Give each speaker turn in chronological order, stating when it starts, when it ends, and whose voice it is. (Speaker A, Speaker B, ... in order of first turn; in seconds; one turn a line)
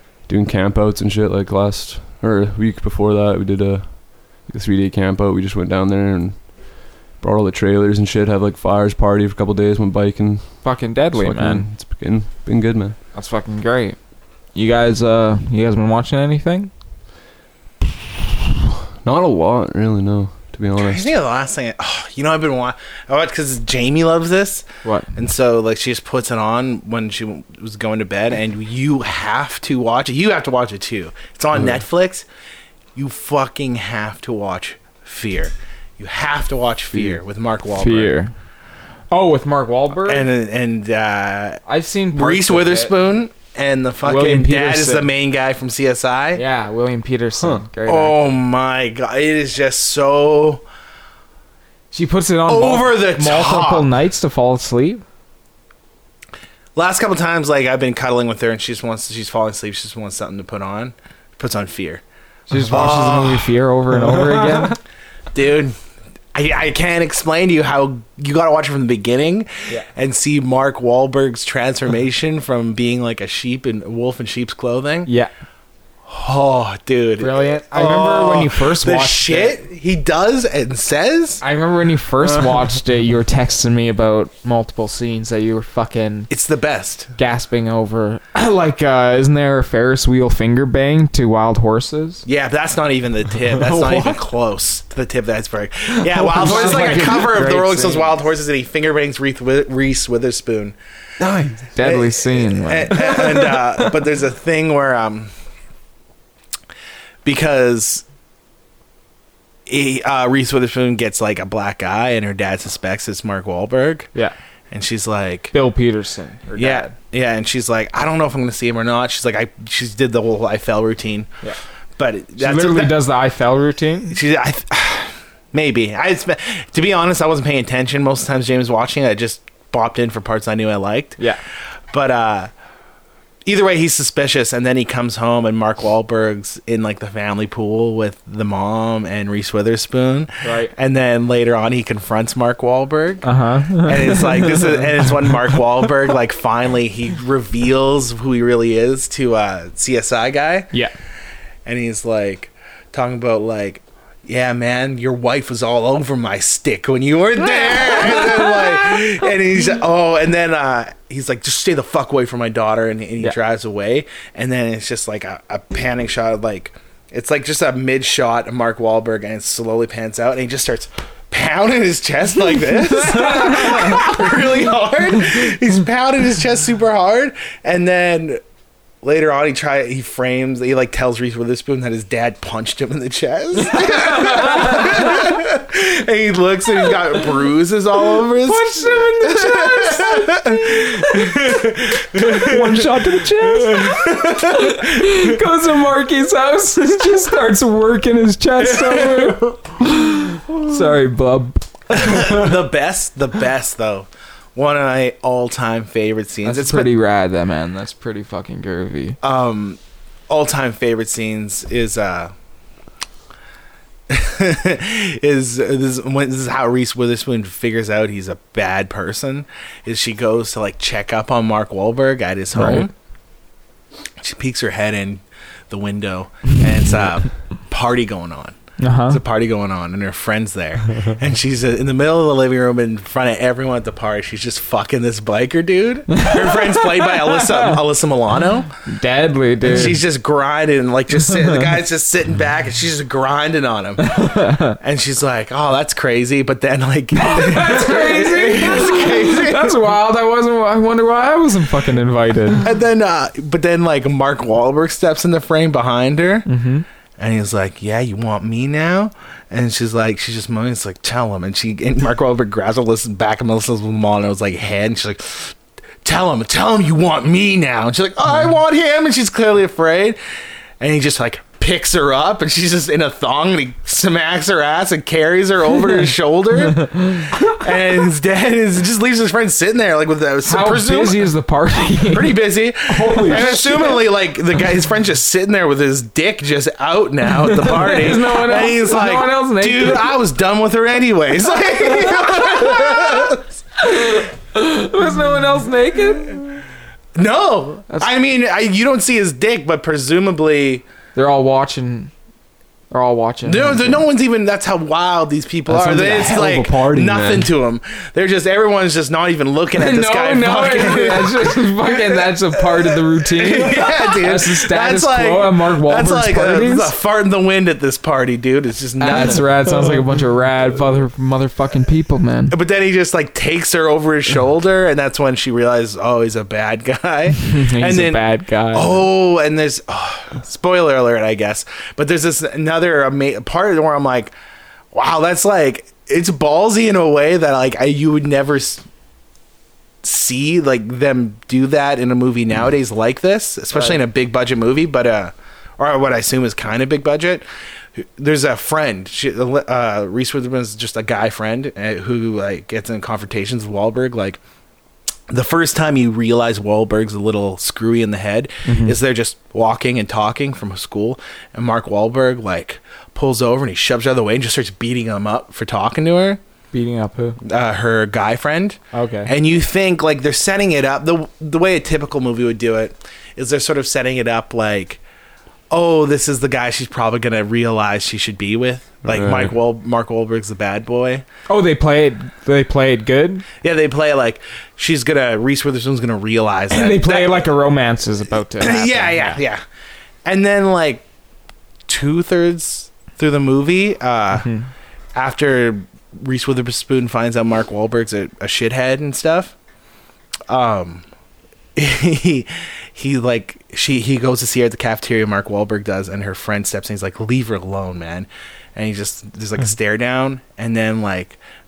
Speaker A: 0.3-13.0
Speaker B: 10.6-11.7
Speaker B: 13.1-14.0
Speaker B: 14.5-16.7
Speaker A: 19.0-21.1
Speaker C: 20.8-32.2
Speaker B: 24.8-25.1
Speaker A: 31.6-31.8
Speaker C: 33.0-38.1
Speaker B: 37.8-38.3
Speaker B: 39.1-40.3
Speaker C: 40.0-46.4
Speaker B: 41.7-42.9
Speaker B: 44.0-45.1
Speaker B: 46.4-48.2
Speaker A: 47.4-47.6
Speaker C: 47.9-50.6
Speaker B: 51.9-55.0
Speaker C: 52.5-53.9
Speaker C: 56.8-62.0
Speaker B: 62.5-64.8
Speaker C: 62.7-63.5
Speaker C: 65.3-65.8
Speaker C: 66.3-75.1
Speaker C: 76.1-81.4
Speaker B: 77.2-79.6
Speaker B: 81.4-86.3
Speaker C: 86.3-87.1
Speaker B: 87.2-92.2
Speaker C: 92.2-100.8
Speaker A: 93.6-94.2
Speaker B: 96.2-98.2
Speaker A: 96.3-97.2
Speaker A: 101.2-101.7
Speaker B: 101.8-103.3
Speaker C: 101.8-105.3
Speaker C: 107.2-108.0
Speaker C: 109.7-114.1
Speaker C: 114.7-115.5
Speaker B: 115.5-116.9
Speaker C: 116.6-121.3
Speaker C: 122.0-123.0
Speaker B: 122.4-124.2
Speaker C: 124.1-131.2
Speaker C: 131.9-132.5
Speaker C: 133.4-150.7
Speaker B: 140.4-140.7
Speaker B: 143.2-144.9
Speaker C: 151.7-178.4
Speaker B: 157.7-158.8
Speaker B: 173.3-174.0
Speaker C: 179.0-192.8
Speaker B: 183.7-185.3
Speaker B: 188.2-202.4
Speaker C: 193.4-195.3
Speaker C: 198.8-199.5
Speaker C: 201.9-206.9
Speaker B: 206.4-209.2
Speaker C: 209.2-212.3
Speaker C: 214.1-222.9
Speaker B: 222.5-222.9
Speaker C: 224.2-228.6
Speaker B: 228.8-229.2
Speaker C: 229.1-238.7
Speaker B: 236.2-237.8
Speaker B: 238.9-240.0
Speaker C: 239.7-244.2
Speaker B: 244.0-244.8
Speaker C: 244.8-249.8
Speaker B: 247.2-252.6
Speaker C: 252.6-256.5
Speaker B: 256.5-256.9
Speaker C: 257.2-270.2
Speaker C: 270.8-281.3
Speaker B: 280.4-282.4
Speaker C: 282.1-293.5
Speaker A: 282.9-283.6
Speaker B: 283.0-284.0
Speaker B: 287.4-290.2
Speaker B: 291.9-296.6
Speaker C: 297.1-300.9
Speaker B: 301.1-302.1
Speaker B: 302.9-304.1
Speaker C: 303.4-312.3
Speaker A: 305.7-307.5
Speaker B: 309.8-316.9
Speaker C: 312.9-319.5
Speaker B: 319.0-322.6
Speaker C: 322.5-334.3
Speaker B: 327.4-329.1
Speaker C: 334.9-338.8
Speaker C: 340.0-354.4
Speaker B: 343.7-344.0
Speaker C: 355.3-366.4
Speaker B: 358.7-359.0
Speaker B: 366.7-367.4
Speaker C: 367.4-375.0
Speaker B: 368.9-369.3
Speaker C: 375.7-381.2
Speaker A: 379.1-379.5
Speaker B: 381.5-383.5
Speaker C: 383.6-387.4
Speaker B: 386.7-389.4
Speaker C: 388.6-389.6
Speaker C: 390.2-391.1
Speaker C: 391.9-394.5
Speaker B: 394.4-394.7
Speaker C: 395.1-399.6
Speaker C: 400.5-401.1
Speaker C: 401.8-411.4